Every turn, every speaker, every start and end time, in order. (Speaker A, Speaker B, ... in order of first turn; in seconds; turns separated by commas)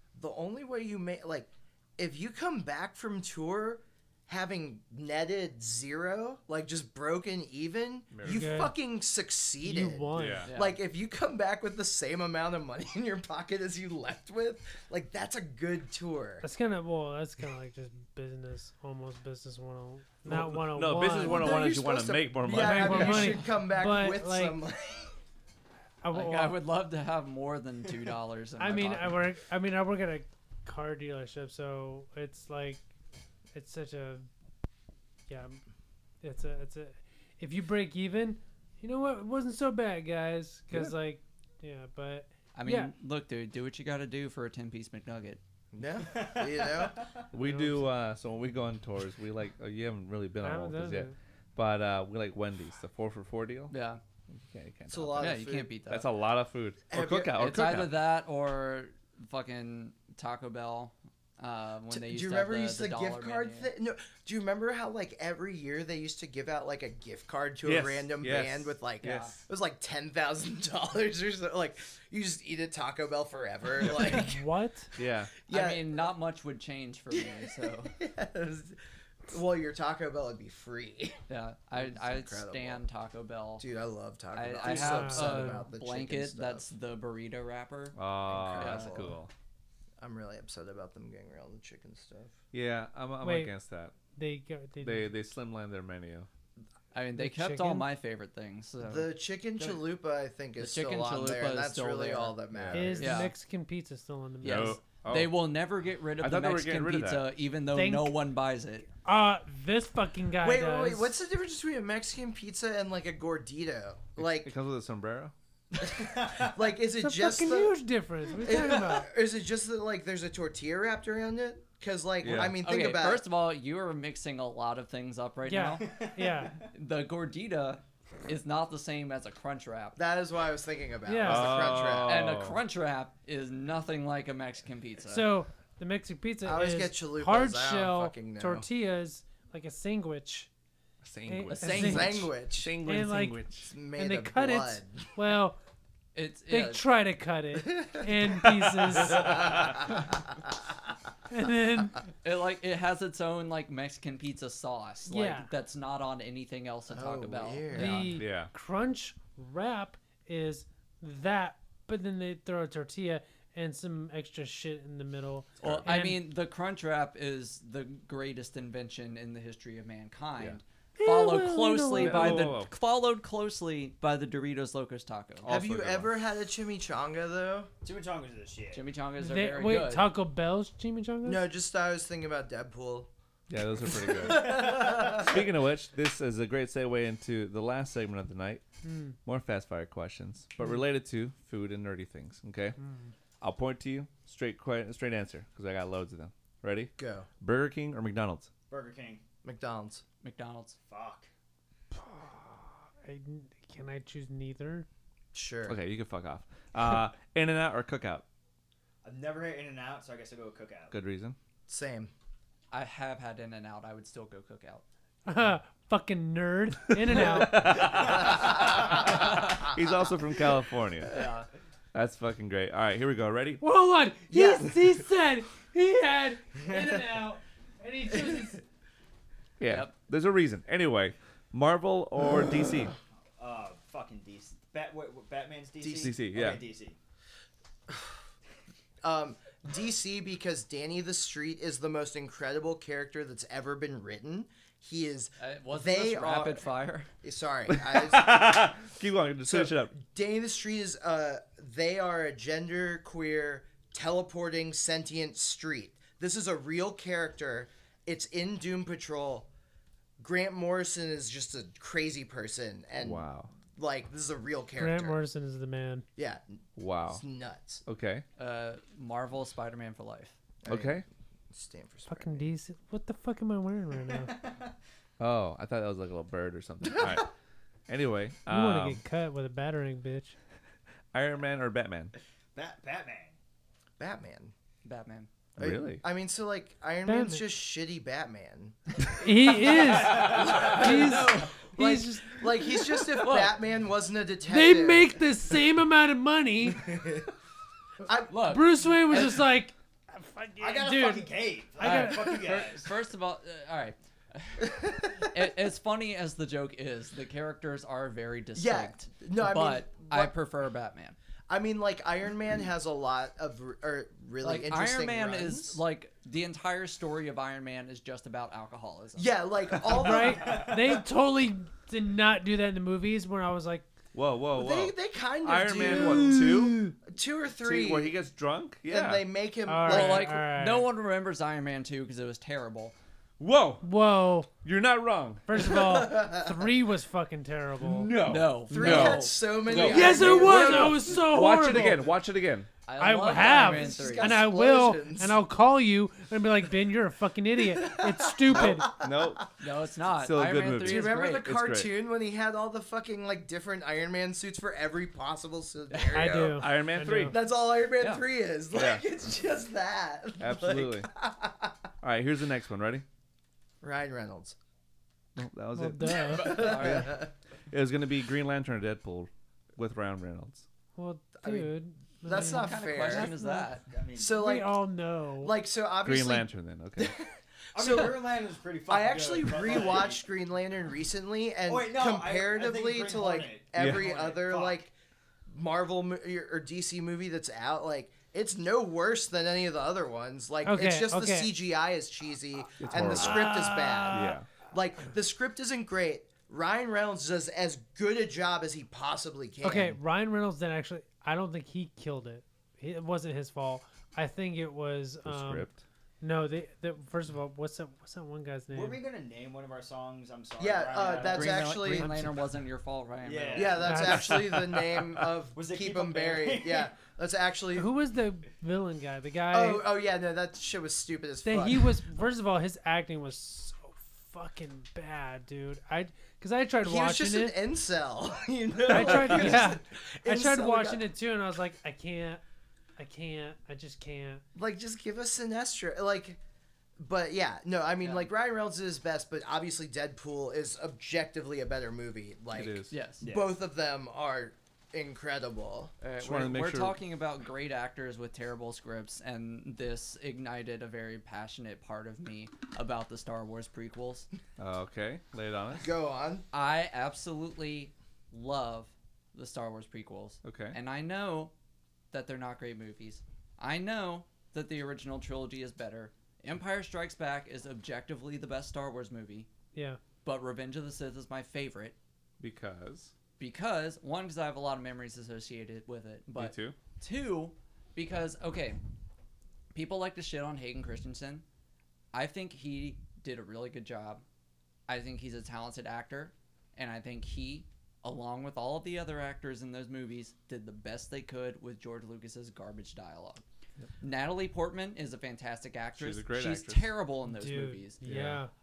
Speaker A: 0.1-16.4, Speaker B: 8.1-8.6, Speaker C: 8.3-8.7, Speaker C: 9.6-10.5, Speaker B: 10.2-10.5, Speaker D: 10.4-10.8, Speaker C: 16.4-21.7, Speaker B: 20.2-23.4, Speaker A: 21.2-25.1, Speaker C: 22.5-24.6, Speaker C: 26.0-26.6, Speaker D: 26.1-29.3, Speaker C: 28.6-32.9, Speaker C: 33.5-34.3, Speaker C: 35.3-35.6, Speaker C: 36.2-42.9, Speaker D: 42.5-45.4, Speaker A: 45.7-47.0, Speaker E: 46.0-47.2, Speaker B: 47.3-53.7, Speaker C: 47.4-47.9, Speaker C: 50.4-51.1, Speaker D: 53.7-54.0, Speaker B: 54.3-58.0, Speaker A: 54.9-55.7, Speaker D: 55.2-56.1, Speaker A: 56.9-57.5, Speaker D: 57.4-63.7, Speaker A: 61.9-74.5, Speaker B: 67.6-69.3, Speaker D: 69.0-69.4, Speaker C: 74.0-74.9, Speaker B: 75.0-75.3, Speaker A: 75.5-76.0, Speaker D: 75.5-78.0, Speaker A: 77.1-81.2, Speaker D: 81.3-83.7, Speaker A: 81.8-82.8, Speaker A: 83.6-86.7, Speaker D: 84.3-88.0, Speaker C: 84.6-85.7, Speaker B: 88.0-89.3, Speaker A: 88.3-89.2, Speaker D: 88.5-89.0, Speaker A: 90.0-92.4, Speaker B: 92.5-94.0, Speaker C: 93.2-93.5, Speaker C: 94.1-95.1, Speaker B: 94.8-96.3, Speaker D: 96.9-99.8, Speaker C: 97.2-97.9, Speaker A: 98.8-103.3, Speaker D: 100.6-102.4, Speaker B: 102.5-103.0, Speaker C: 102.7-104.8, Speaker D: 103.0-103.3, Speaker D: 104.4-108.9, Speaker B: 104.4-105.4, Speaker B: 106.2-107.3, Speaker C: 107.7-108.2, Speaker C: 109.0-111.1, Speaker A: 110.4-114.5, Speaker B: 114.2-115.3, Speaker A: 115.7-117.8, Speaker E: 116.2-116.5, Speaker C: 117.0-119.1, Speaker A: 118.4-123.2, Speaker B: 122.2-122.6, Speaker D: 122.3-125.9, Speaker C: 125.5-126.6, Speaker E: 125.8-126.7, Speaker D: 126.7-130.0, Speaker A: 130.0-132.2, Speaker C: 131.1-131.8, Speaker B: 131.2-132.6, Speaker D: 132.1-135.3, Speaker C: 135.1-140.5, Speaker A: 136.4-138.7, Speaker B: 141.0-143.7, Speaker C: 141.3-142.3, Speaker D: 141.5-142.2, Speaker A: 141.8-142.7, Speaker C: 142.8-145.6, Speaker A: 143.7-145.1, Speaker D: 146.2-146.8, Speaker C: 146.5-149.8, Speaker A: 147.7-148.4, Speaker A: 149.0-150.0, Speaker C: 151.3-152.0, Speaker D: 152.2-158.2, Speaker C: 155.1-155.5, Speaker A: 156.9-158.2, Speaker C: 157.7-166.2, Speaker B: 158.0-158.5, Speaker B: 165.6-165.9, Speaker D: 165.6-175.5, Speaker C: 171.0-172.6, Speaker B: 172.0-172.7, Speaker B: 175.4-176.1, Speaker A: 175.5-177.7, Speaker E: 177.8-178.8, Speaker D: 178.7-180.1, Speaker C: 179.2-181.4, Speaker A: 181.2-183.1, Speaker B: 183.5-188.6, Speaker A: 183.9-185.4, Speaker C: 188.8-189.1, Speaker B: 189.2-192.8, Speaker C: 192.8-193.1, Speaker B: 193.4-198.5, Speaker A: 197.0-197.3, Speaker E: 198.7-199.2, Speaker A: 199.4-200.0, Speaker D: 200.2-200.8, Speaker E: 200.9-201.3, Speaker C: 201.9-204.9, Speaker A: 205.3-205.8, Speaker B: 205.7-208.2, Speaker E: 209.0-210.9, Speaker B: 210.9-211.4, Speaker A: 211.7-212.1, Speaker D: 212.7-214.8, Speaker C: 215.3-218.2, Speaker B: 216.9-221.2, Speaker A: 218.2-219.6, Speaker D: 221.1-221.5, Speaker B: 221.9-223.6, Speaker C: 223.6-228.6, Speaker A: 224.3-224.8, Speaker B: 229.6-232.9, Speaker D: 229.7-229.9, Speaker E: 233.4-237.0, Speaker A: 235.8-236.2, Speaker B: 236.0-236.6, Speaker A: 239.0-246.7, Speaker D: 245.4-247.1, Speaker A: 247.2-248.7, Speaker B: 247.7-250.0, Speaker A: 249.5-259.5, Speaker A: 260.2-265.2, Speaker B: 263.0-263.5, Speaker C: 264.8-266.1, Speaker A: 266.2-267.8, Speaker B: 266.8-267.2, Speaker B: 267.9-268.2, Speaker D: 268.4-270.4, Speaker A: 270.6-272.5, Speaker B: 270.7-271.0, Speaker C: 272.1-274.4, Speaker E: 274.1-274.7, Speaker B: 275.2-277.3, Speaker B: 277.9-279.0, Speaker C: 278.5-280.4, Speaker B: 281.1-282.1, Speaker E: 282.6-283.4, Speaker A: 284.0-284.5, Speaker D: 284.8-285.3, Speaker B: 285.6-286.0, Speaker A: 285.6-288.8, Speaker C: 287.1-287.4, Speaker C: 289.1-293.1, Speaker A: 290.1-295.2, Speaker D: 290.1-291.6, Speaker B: 290.1-290.6, Speaker D: 293.1-293.6, Speaker C: 294.4-297.1, Speaker A: 296.9-297.2, Speaker A: 298.0-298.4, Speaker D: 298.3-299.4, Speaker C: 298.4-302.6, Speaker E: 300.6-302.9, Speaker D: 301.8-311.2, Speaker A: 304.6-305.3, Speaker A: 308.6-310.3, Speaker A: 311.5-315.8, Speaker D: 314.4-319.3, Speaker A: 319.2-320.8, Speaker C: 319.9-323.9, Speaker E: 320.1-320.9, Speaker B: 324.1-326.9, Speaker A: 324.6-328.2, Speaker B: 327.6-329.2, Speaker A: 328.9-330.3, Speaker C: 329.7-330.9, Speaker D: 329.9-332.9, Speaker B: 333.4-333.9, Speaker C: 333.8-334.5, Speaker B: 334.6-335.6, Speaker C: 335.5-338.2, Speaker A: 335.6-336.7, Speaker B: 337.8-342.7, Speaker D: 338.2-340.0, Speaker A: 338.7-341.2, Speaker C: 339.7-342.1, Speaker D: 342.9-344.5, Speaker C: 343.0-348.9, Speaker A: 343.4-345.4, Speaker A: 347.6-349.4, Speaker B: 348.5-349.5, Speaker D: 349.6-351.5, Speaker B: 350.2-351.9, Speaker A: 350.8-356.7, Speaker D: 355.9-356.4, Speaker C: 356.1-357.4, Speaker B: 356.4-357.4, Speaker A: 357.3-361.8, Speaker D: 358.0-358.2, Speaker B: 358.8-359.0, Speaker B: 360.4-361.1, Speaker B: 362.0-363.1, Speaker A: 363.8-364.6, Speaker B: 365.4-370.7, Speaker C: 365.7-366.8, Speaker D: 366.3-367.2, Speaker A: 366.3-367.3, Speaker C: 371.0-373.8, Speaker A: 371.4-373.3, Speaker D: 372.3-373.9, Speaker E: 373.9-374.4, Speaker A: 374.2-374.8, Speaker C: 374.3-375.6, Speaker A: 375.4-378.4, Speaker B: 376.0-377.2, Speaker E: 377.8-380.2, Speaker A: 378.9-384.9, Speaker E: 381.7-384.8, Speaker B: 383.8-384.1, Speaker A: 385.5-400.0, Speaker C: 390.6-391.5, Speaker B: 392.8-394.5, Speaker C: 393.0-394.4, Speaker C: 399.6-409.0, Speaker B: 405.2-405.8, Speaker E: 408.7-411.8, Speaker A: 410.6-412.3, Speaker D: 411.1-414.0, Speaker C: 411.9-412.4, Speaker E: 413.2-414.2, Speaker A: 413.5-417.9, Speaker C: 413.8-414.5, Speaker B: 414.2-415.0, Speaker E: 415.6-416.9, Speaker C: 417.8-419.9, Speaker A: 419.5-422.0, Speaker C: 421.4-427.6, Speaker A: 426.8-431.1, Speaker C: 428.9-432.4, Speaker C: 433.0-434.4, Speaker A: 434.6-436.4, Speaker A: 437.0-445.9, Speaker D: 438.0-438.3, Speaker B: 442.5-442.9, Speaker D: 442.9-443.2, Speaker E: 443.2-443.6, Speaker D: 446.0-454.3, Speaker B: 446.2-447.0, Speaker B: 454.6-455.9, Speaker A: 455.8-456.4, Speaker D: 456.5-461.5, Speaker B: 460.4-460.8, Speaker D: 462.1-469.5, Speaker C: 469.7-470.0, Speaker D: 470.2-472.0, Speaker B: 472.4-473.1, Speaker D: 473.4-478.8, Speaker B: 476.4-476.8, Speaker D: 479.7-481.4, Speaker D: 482.1-484.2, Speaker D: 484.9-493.4, Speaker D: 494.0-498.0, Speaker B: 496.0-496.9, Speaker C: 497.3-498.5, Speaker B: 498.0-498.4